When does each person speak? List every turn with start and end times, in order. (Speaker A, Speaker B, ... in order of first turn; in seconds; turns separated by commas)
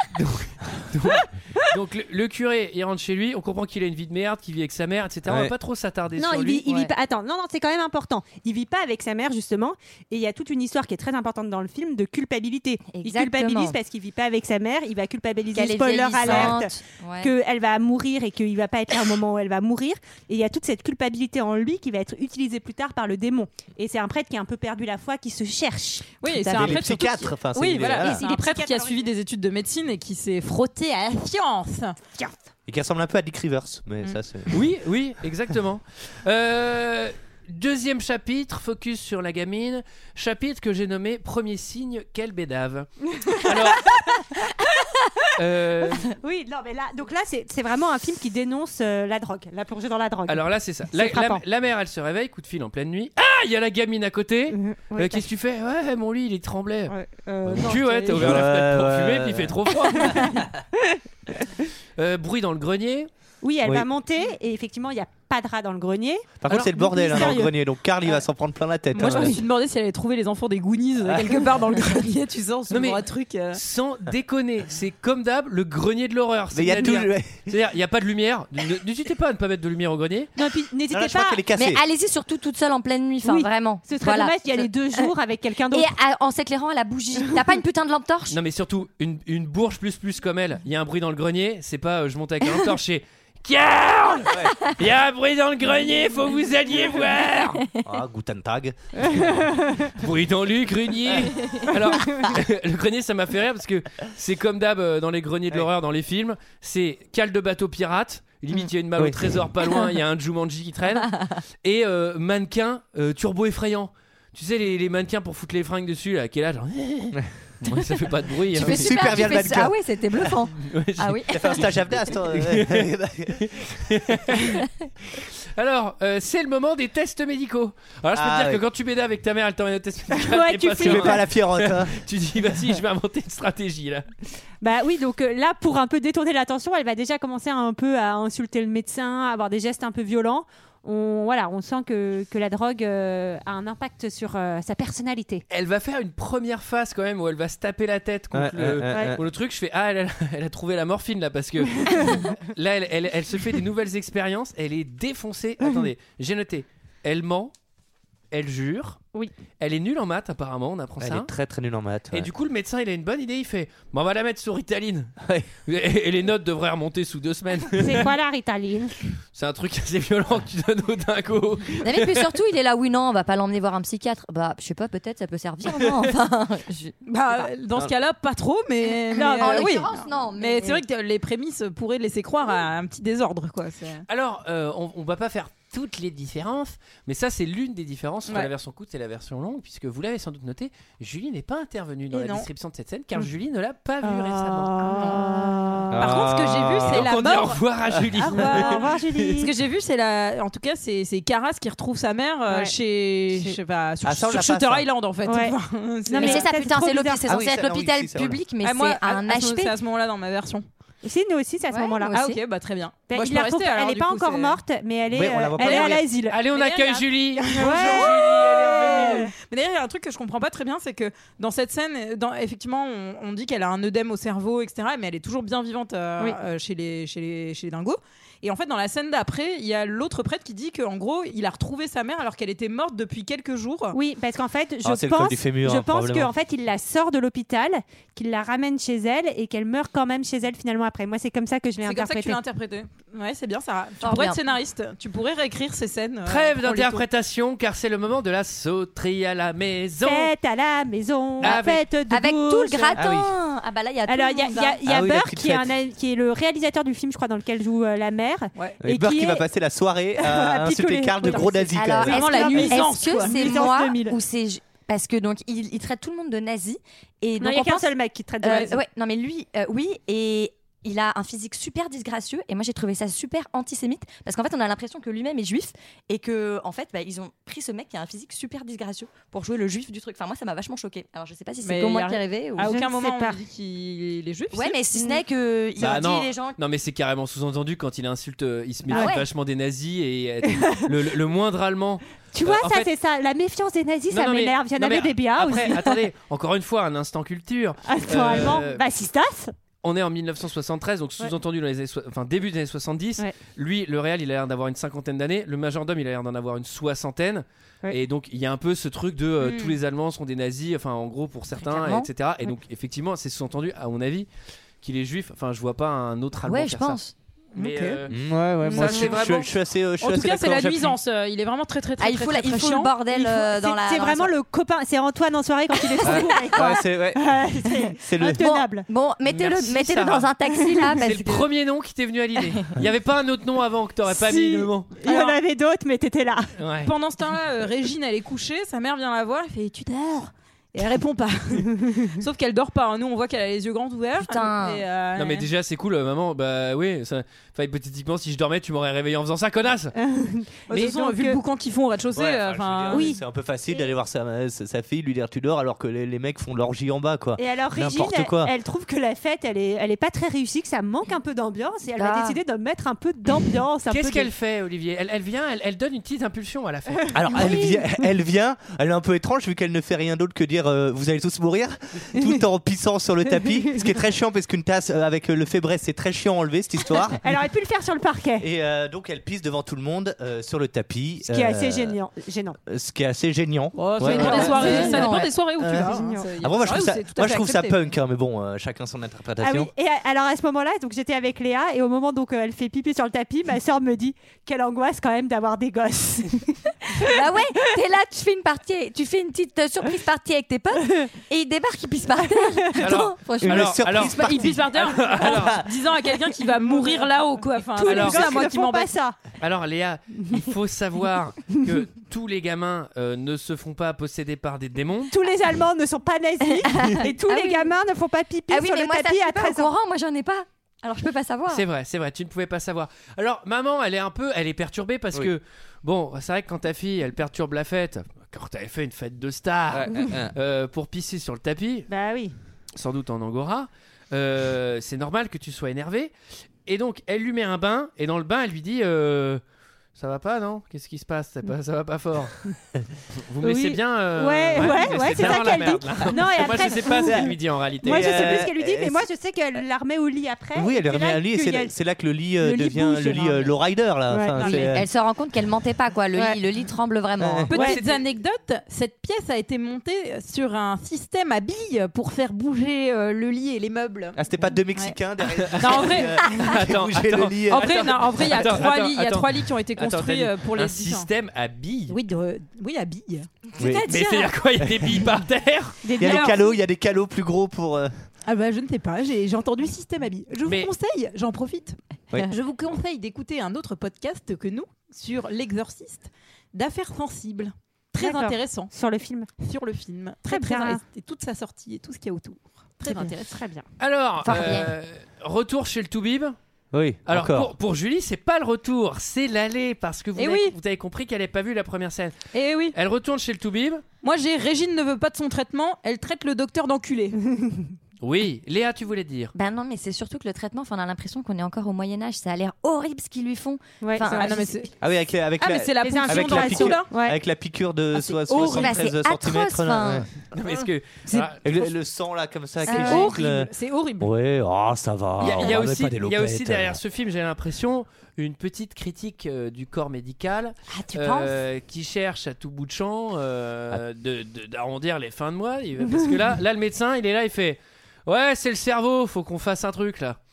Speaker A: 0.1-6.7, Speaker B: 5.3-5.5, Speaker C: 6.2-26.8, Speaker D: 12.9-13.8, Speaker D: 15.6-17.3, Speaker B: 16.2-16.5, Speaker E: 26.2-32.0, Speaker B: 26.5-28.2, Speaker C: 28.0-29.1, Speaker B: 32.7-34.6, Speaker A: 34.5-44.1, Speaker C: 43.2-44.2, Speaker A: 45.4-46.1, Speaker C: 46.1-51.4, Speaker A: 50.3-60.3, Speaker C: 54.6-55.2, Speaker C: 56.9-58.5, Speaker B: 58.1-59.5, Speaker C: 60.1-60.5, Speaker A: 62.0-63.1, Speaker C: 63.4-67.5, Speaker B: 66.4-69.4, Speaker A: 66.5-67.2, Speaker E: 68.9-73.6, Speaker C: 69.0-69.4, Speaker B: 71.0-71.5, Speaker A: 72.7-80.3, Speaker B: 76.5-77.5, Speaker C: 80.3-81.4, Speaker B: 80.9-81.8, Speaker D: 81.6-85.1, Speaker C: 83.2-85.9, Speaker D: 85.7-88.4, Speaker A: 88.3-97.6, Speaker B: 94.3-94.6, Speaker B: 97.8-99.5, Speaker C: 99.1-99.9, Speaker A: 100.0-119.0, Speaker B: 109.0-109.5, Speaker B: 118.6-119.8, Speaker D: 118.6-121.7, Speaker A: 120.6-124.6, Speaker B: 121.3-124.2, Speaker A: 125.2-134.1, Speaker B: 128.1-128.6, Speaker C: 130.1-131.2, Speaker B: 130.8-132.0, Speaker C: 134.6-145.4, Speaker A: 145.5-157.5, Speaker B: 148.3-149.2, Speaker C: 148.9-149.2, Speaker C: 151.9-152.3, Speaker A: 158.3-159.0, Speaker A: 159.6-161.3, Speaker B: 161.0-162.3, Speaker A: 162.1-165.1, Speaker A: 165.7-168.1, Speaker C: 167.8-169.0, Speaker A: 169.3-172.3, Speaker D: 171.8-177.5, Speaker E: 177.1-184.1, Speaker D: 178.9-180.8, Speaker C: 179.2-179.8, Speaker A: 184.1-194.9, Speaker E: 192.1-192.5, Speaker C: 194.0-196.1, Speaker E: 194.8-195.4, Speaker B: 195.9-197.1, Speaker E: 195.9-197.7, Speaker A: 196.9-199.4, Speaker C: 198.2-199.5, Speaker E: 198.3-206.5, Speaker C: 202.5-202.8, Speaker C: 203.3-203.6, Speaker B: 204.0-204.9, Speaker C: 205.3-205.6, Speaker C: 206.1-207.4, Speaker D: 206.2-209.7, Speaker B: 207.3-208.4, Speaker E: 208.6-210.7, Speaker C: 211.0-212.2, Speaker D: 211.7-212.4, Speaker E: 212.1-214.6, Speaker C: 213.1-216.4, Speaker B: 215.1-216.1, Speaker E: 215.6-215.9, Speaker A: 216.3-219.3, Speaker E: 216.5-234.0, Speaker C: 217.6-219.3, Speaker C: 233.9-242.4, Speaker B: 234.8-236.3, Speaker E: 241.8-247.1, Speaker D: 244.0-244.4, Speaker A: 246.2-250.3, Speaker C: 250.0-253.0, Speaker A: 251.4-251.8, Speaker D: 252.1-254.8, Speaker B: 253.0-253.3, Speaker C: 254.1-259.4, Speaker B: 254.8-255.8, Speaker E: 258.6-258.8, Speaker B: 258.8-262.5, Speaker C: 260.2-264.2, Speaker D: 261.7-267.9, Speaker E: 262.0-263.8, Speaker C: 267.4-268.8, Speaker D: 268.4-282.8, Speaker E: 281.6-284.8, Speaker C: 282.6-283.4, Speaker D: 284.5-286.6, Speaker A: 285.8-292.9, Speaker D: 288.9-289.3, Speaker C: 292.3-295.9, Speaker A: 294.1-298.8, Speaker C: 297.9-299.5, Speaker A: 299.8-314.3, Speaker D: 311.6-312.1, Speaker A: 314.8-317.0, Speaker D: 316.4-317.1, Speaker A: 317.5-319.5, Speaker C: 317.6-317.9, Speaker B: 318.1-321.0, Speaker E: 318.7-319.3, Speaker E: 320.0-322.9, Speaker D: 322.0-324.3, Speaker C: 323.1-328.9, Speaker B: 326.0-327.3, Speaker B: 328.0-328.5, Speaker D: 328.4-331.5, Speaker A: 329.2-330.3, Speaker C: 330.7-331.0, Speaker A: 331.1-334.9, Speaker C: 334.1-336.5, Speaker E: 335.1-335.4, Speaker A: 336.6-336.9, Speaker E: 336.8-345.5, Speaker D: 344.2-344.8, Speaker A: 345.2-349.9, Speaker C: 349.9-351.4, Speaker E: 350.7-353.1, Speaker B: 352.1-358.5, Speaker C: 352.9-353.2, Speaker C: 357.4-364.3, Speaker D: 362.0-362.4, Speaker A: 363.9-367.1, Speaker C: 367.1-368.0, Speaker B: 367.1-377.2, Speaker C: 377.2-378.5, Speaker B: 378.4-382.0, Speaker C: 381.2-382.6, Speaker B: 382.7-389.7, Speaker E: 383.7-387.8, Speaker D: 384.0-385.3, Speaker C: 384.1-385.2, Speaker C: 385.7-386.3, Speaker C: 389.4-397.1, Speaker D: 397.0-403.9, Speaker A: 402.8-405.6, Speaker B: 403.4-405.7, Speaker E: 404.1-408.9, Speaker C: 406.7-407.0, Speaker C: 407.8-409.2, Speaker A: 407.8-408.3, Speaker A: 409.4-415.1, Speaker C: 415.1-419.7, Speaker D: 416.6-417.7, Speaker D: 418.5-421.6, Speaker A: 421.5-431.9, Speaker B: 429.7-430.4, Speaker C: 431.9-432.4, Speaker A: 432.8-436.1, Speaker A: 436.6-439.4, Speaker A: 439.9-442.4, Speaker A: 443.2-448.4, Speaker C: 443.4-451.7, Speaker B: 447.8-449.0, Speaker B: 450.6-454.9, Speaker C: 452.4-453.5, Speaker C: 454.1-454.7, Speaker D: 454.4-457.6, Speaker C: 456.1-456.4, Speaker B: 457.2-457.5, Speaker E: 457.5-464.2, Speaker C: 457.5-457.8, Speaker A: 457.7-458.0, Speaker B: 464.1-468.3, Speaker A: 465.4-472.0, Speaker E: 465.6-466.3, Speaker E: 467.4-471.1, Speaker E: 471.9-473.4, Speaker B: 473.6-473.9, Speaker D: 473.6-474.2, Speaker A: 473.9-475.8, Speaker B: 474.6-475.0, Speaker C: 475.8-476.6, Speaker B: 476.0-478.1, Speaker E: 476.0-476.4, Speaker E: 478.2-488.7, Speaker A: 480.4-480.7, Speaker C: 488.0-489.3, Speaker E: 489.4-493.4, Speaker C: 490.3-490.8, Speaker C: 492.8-493.7, Speaker A: 493.8-496.4, Speaker D: 494.2-494.7, Speaker B: 496.7-497.5, Speaker A: 497.1-503.9, Speaker E: 500.2-500.6, Speaker E: 502.3-502.8, Speaker E: 504.0-507.2, Speaker A: 508.0-509.3, Speaker D: 509.3-514.6, Speaker C: 513.8-514.3, Speaker E: 514.1-514.7, Speaker B: 514.8-520.1, Speaker E: 515.4-516.9, Speaker C: 515.8-517.2, Speaker E: 518.0-518.9, Speaker D: 518.3-520.1, Speaker A: 520.3-521.5, Speaker B: 521.1-526.8, Speaker D: 522.7-523.1, Speaker E: 522.7-524.1, Speaker A: 525.2-540.2, Speaker D: 530.7-531.4